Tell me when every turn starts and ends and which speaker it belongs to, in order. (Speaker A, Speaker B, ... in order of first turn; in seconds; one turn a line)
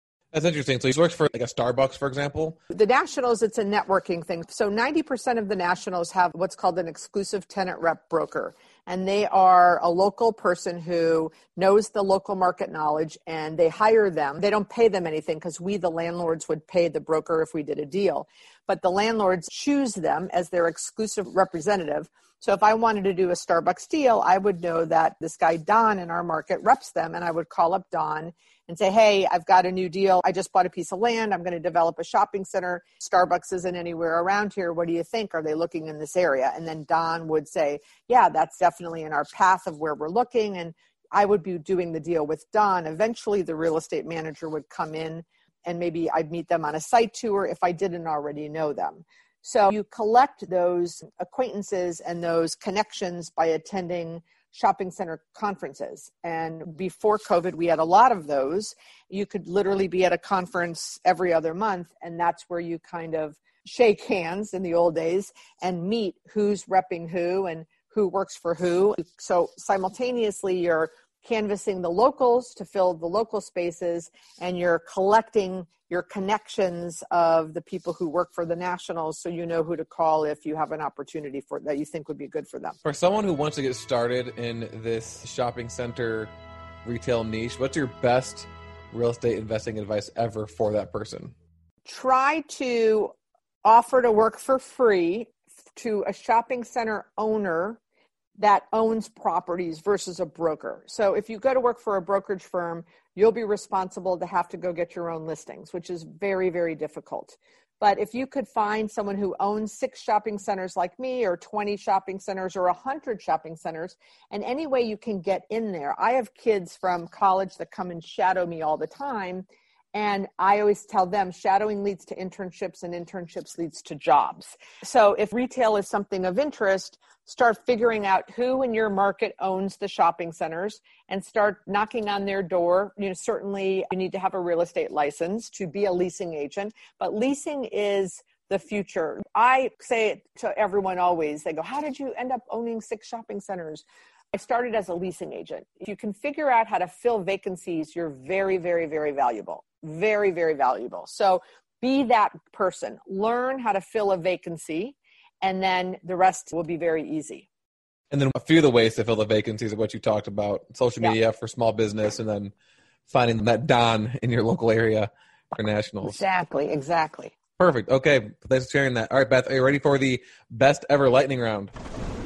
Speaker A: 0.3-2.6
Speaker B: 2.7-82.8
Speaker A: 82.8-91.3
Speaker B: 91.8-93.1
Speaker B: 93.6-97.8
Speaker B: 98.4-157.5
Speaker A: 158.1-162.5
Speaker A: 163.1-166.2
Speaker B: 166.0-167.3
Speaker A: 167.6-171.7